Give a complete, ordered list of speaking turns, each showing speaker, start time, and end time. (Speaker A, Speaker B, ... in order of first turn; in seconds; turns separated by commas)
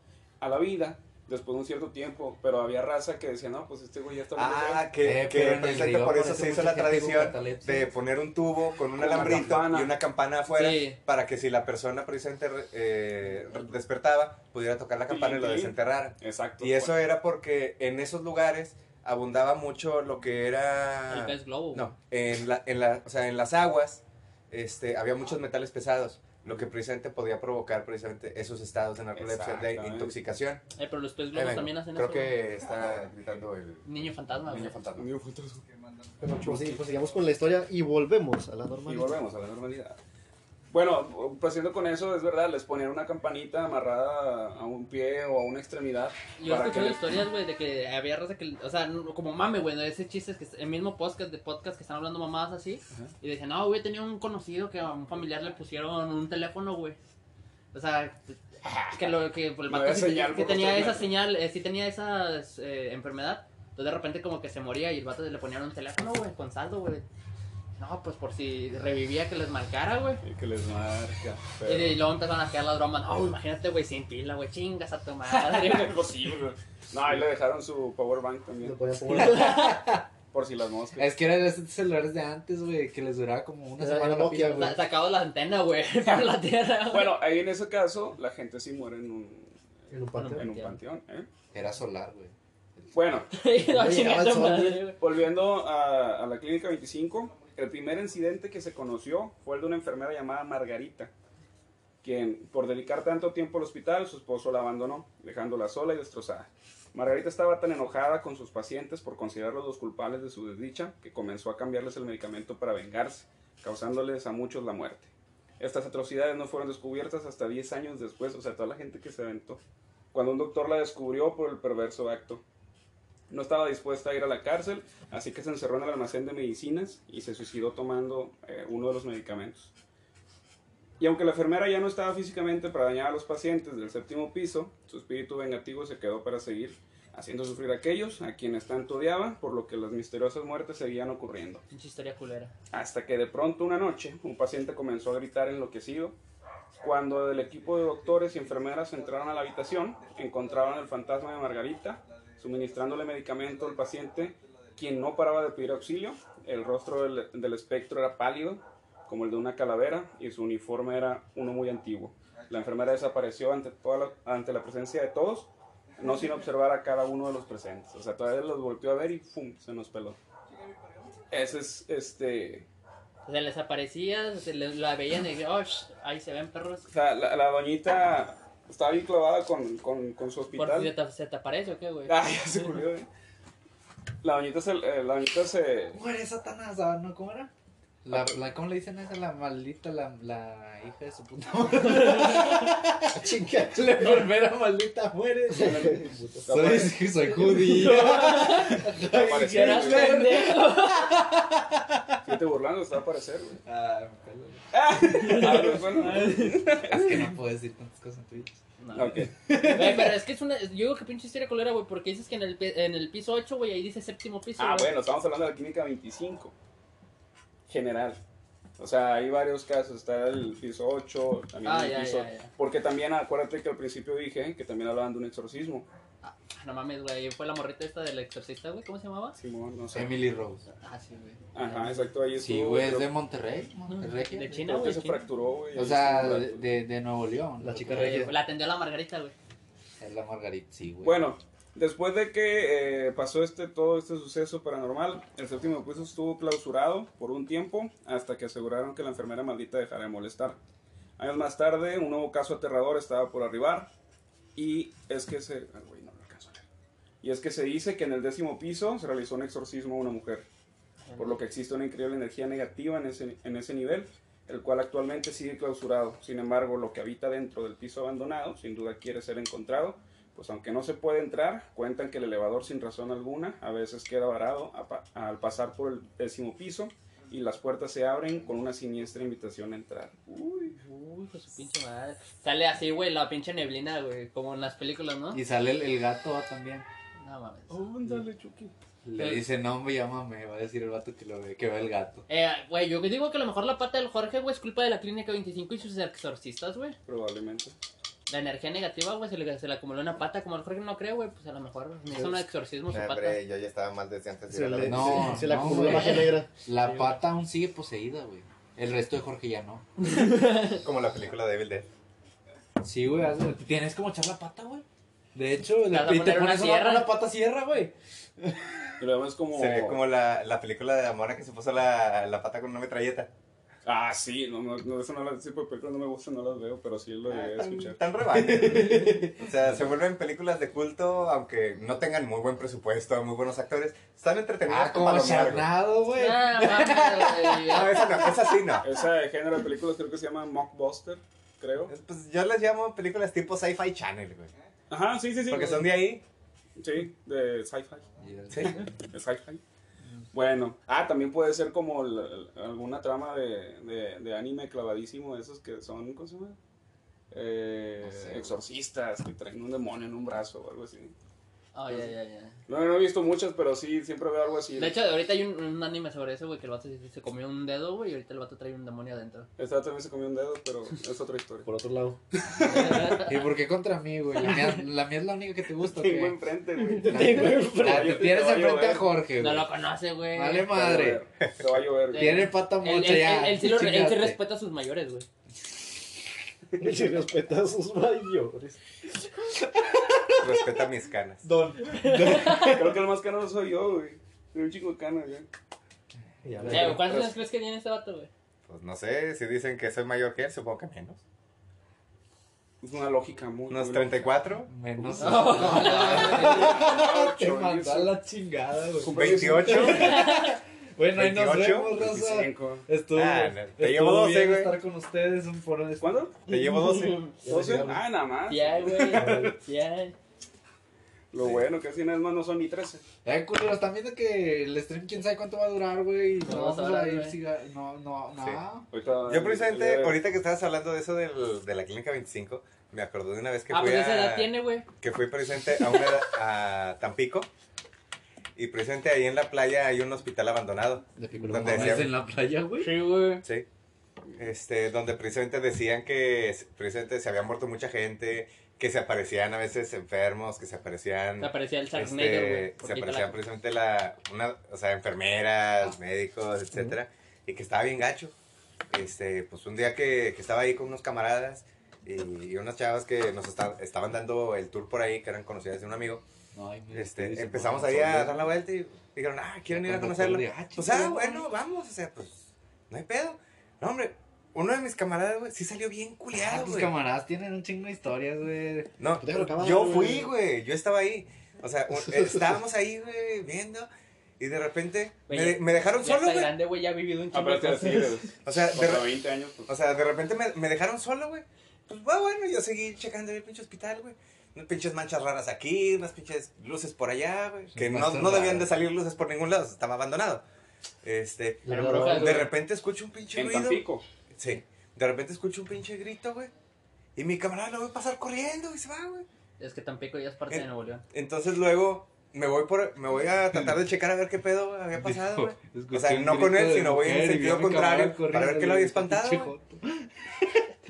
Speaker A: 0.4-4.9, Speaker B: 4.3-30.6, Speaker C: 5.0-7.9, Speaker A: 8.9-10.0, Speaker D: 10.5-11.0, Speaker A: 15.1-16.9, Speaker D: 21.1-21.9, Speaker A: 29.1-30.1, Speaker D: 30.8-32.4, Speaker B: 31.3-33.9, Speaker D: 33.8-34.8, Speaker B: 34.5-35.1, Speaker A: 34.9-35.6, Speaker E: 36.2-39.2, Speaker A: 36.4-36.8, Speaker A: 38.9-40.0, Speaker A: 40.7-47.0, Speaker D: 46.4-57.0, Speaker D: 57.7-58.4, Speaker A: 58.6-59.1, Speaker D: 58.9-67.0, Speaker A: 59.7-61.1, Speaker D: 67.8-70.2, Speaker A: 70.2-72.0, Speaker D: 71.6-76.0, Speaker A: 75.3-79.4, Speaker E: 78.6-79.7, Speaker C: 79.1-80.0, Speaker D: 79.2-79.8, Speaker A: 80.3-81.1, Speaker C: 81.0-84.8, Speaker E: 83.8-84.8, Speaker D: 84.4-87.1, Speaker A: 86.9-89.5, Speaker E: 89.9-90.5, Speaker D: 90.1-90.8, Speaker A: 90.3-91.3, Speaker C: 91.5-92.9, Speaker A: 92.9-93.3, Speaker D: 93.3-95.0, Speaker E: 93.6-94.9, Speaker A: 95.0-101.1, Speaker A: 102.0-119.6, Speaker A: 120.1-122.4, Speaker A: 123.3-129.7, Speaker A: 131.0-141.6, Speaker D: 141.7-142.5, Speaker A: 142.7-146.2, Speaker A: 146.8-170.2, Speaker A: 171.3-172.7, Speaker D: 173.2-176.9, Speaker A: 176.9-180.9, Speaker D: 180.6-182.2, Speaker A: 182.1-183.1, Speaker A: 184.2-186.0, Speaker C: 185.9-187.5, Speaker C: 188.0-202.2, Speaker A: 188.1-188.4, Speaker D: 191.8-192.7, Speaker E: 193.1-194.1, Speaker E: 195.5-196.4, Speaker A: 195.6-197.3, Speaker D: 197.3-201.2, Speaker A: 198.9-200.2, Speaker A: 202.2-203.6, Speaker C: 203.7-204.7, Speaker A: 204.7-207.2, Speaker D: 205.0-206.7, Speaker C: 205.3-205.6, Speaker C: 206.1-208.6, Speaker D: 208.8-214.9, Speaker A: 208.9-209.3, Speaker C: 209.1-210.2, Speaker A: 214.6-216.5, Speaker A: 217.7-218.2, Speaker A: 218.8-225.9, Speaker D: 221.6-222.5, Speaker D: 226.2-229.4, Speaker A: 229.4-230.2, Speaker C: 229.9-230.6, Speaker D: 230.8-232.1, Speaker A: 231.5-233.1, Speaker C: 232.4-234.7, Speaker D: 233.9-235.2, Speaker A: 234.6-236.6, Speaker C: 235.7-238.3, Speaker E: 237.6-238.3, Speaker D: 237.9-239.3, Speaker C: 240.0-241.2, Speaker A: 241.0-250.6, Speaker A: 251.2-253.9, Speaker A: 254.6-256.6, Speaker A: 257.2-260.4, Speaker D: 261.1-261.4, Speaker A: 261.2-280.8, Speaker D: 280.8-285.4, Speaker C: 285.3-286.9, Speaker D: 287.2-287.8, Speaker A: 287.7-288.7, Speaker C: 289.0-292.2, Speaker D: 289.2-289.4, Speaker D: 292.3-296.9, Speaker A: 297.1-297.7, Speaker D: 298.3-303.4, Speaker B: 302.9-305.4, Speaker E: 304.5-306.5, Speaker C: 304.8-309.8, Speaker D: 305.7-307.1, Speaker D: 310.0-310.8, Speaker B: 310.8-311.9, Speaker C: 312.8-318.9, Speaker D: 315.9-317.1, Speaker A: 319.0-320.0, Speaker B: 319.5-323.3, Speaker A: 323.8-328.0, Speaker B: 327.3-335.7, Speaker C: 328.2-329.5, Speaker C: 334.6-338.3, Speaker D: 336.1-338.3, Speaker B: 337.7-338.9, Speaker A: 338.8-341.9, Speaker B: 341.9-344.5, Speaker A: 344.9-346.0, Speaker B: 345.5-346.2, Speaker A: 346.8-348.1, Speaker C: 348.2-349.0, Speaker B: 348.5-348.8, Speaker A: 348.6-349.6, Speaker A: 350.3-356.6, Speaker A: 357.3-361.1, Speaker C: 358.0-358.5, Speaker D: 361.7-362.6, Speaker A: 362.7-365.0, Speaker D: 364.8-369.5, Speaker A: 369.6-371.7, Speaker E: 371.6-372.2, Speaker A: 372.5-373.1, Speaker D: 372.6-373.4, Speaker C: 373.2-376.4, Speaker A: 375.8-379.1, Speaker D: 377.0-378.1, Speaker C: 377.0-379.7, Speaker E: 377.1-377.7, Speaker D: 379.4-380.8, Speaker C: 380.3-381.2, Speaker A: 380.7-382.5, Speaker C: 382.1-384.4, Speaker D: 382.1-385.3, Speaker E: 386.8-388.8, Speaker C: 389.8-390.7, Speaker B: 390.4-391.4, Speaker C: 391.4-393.0, Speaker D: 391.9-392.8, Speaker A: 392.5-395.5, Speaker E: 396.4-397.1, Speaker A: 396.6-397.3, Speaker D: 396.7-398.3, Speaker B: 398.7-401.2, Speaker A: 402.8-404.4, Speaker B: 403.7-404.7, Speaker C: 404.7-416.3, Speaker A: 405.0-408.1, Speaker D: 405.2-406.8, Speaker A: 409.0-410.1, Speaker B: 409.1-410.2, Speaker D: 409.8-410.6, Speaker B: 411.1-412.1, Speaker A: 411.9-412.9, Speaker B: 413.1-414.7, Speaker A: 416.0-416.4, Speaker B: 416.4-417.3, Speaker D: 416.6-417.3, Speaker E: 417.3-418.1, Speaker A: 417.4-419.2, Speaker D: 418.5-420.1, Speaker E: 419.1-419.5, Speaker A: 421.3-423.0, Speaker B: 421.4-421.7, Speaker C: 423.2-428.9, Speaker D: 426.4-427.4, Speaker A: 428.9-430.2, Speaker B: 429.2-437.5, Speaker D: 433.7-434.9, Speaker B: 438.6-442.1, Speaker E: 441.2-442.1, Speaker C: 441.5-442.9, Speaker D: 442.8-443.4, Speaker B: 444.3-458.3, Speaker D: 451.4-453.4, Speaker B: 458.9-466.2, Speaker C: 466.5-468.5, Speaker B: 466.9-476.9, Speaker C: 469.7-471.5, Speaker C: 476.3-478.9, Speaker B: 479.0-483.9, Speaker E: 479.2-480.3, Speaker E: 482.1-482.4, Speaker B: 484.4-486.5, Speaker D: 485.3-488.2, Speaker A: 487.3-489.7, Speaker B: 488.4-489.1, Speaker B: 489.7-500.4, Speaker C: 497.7-498.7, Speaker B: 501.0-506.5, Speaker E: 501.6-502.5, Speaker D: 501.7-502.5, Speaker A: 503.3-504.0, Speaker B: 507.1-509.2, Speaker D: 509.6-511.0, Speaker B: 510.5-519.5, Speaker C: 515.0-520.7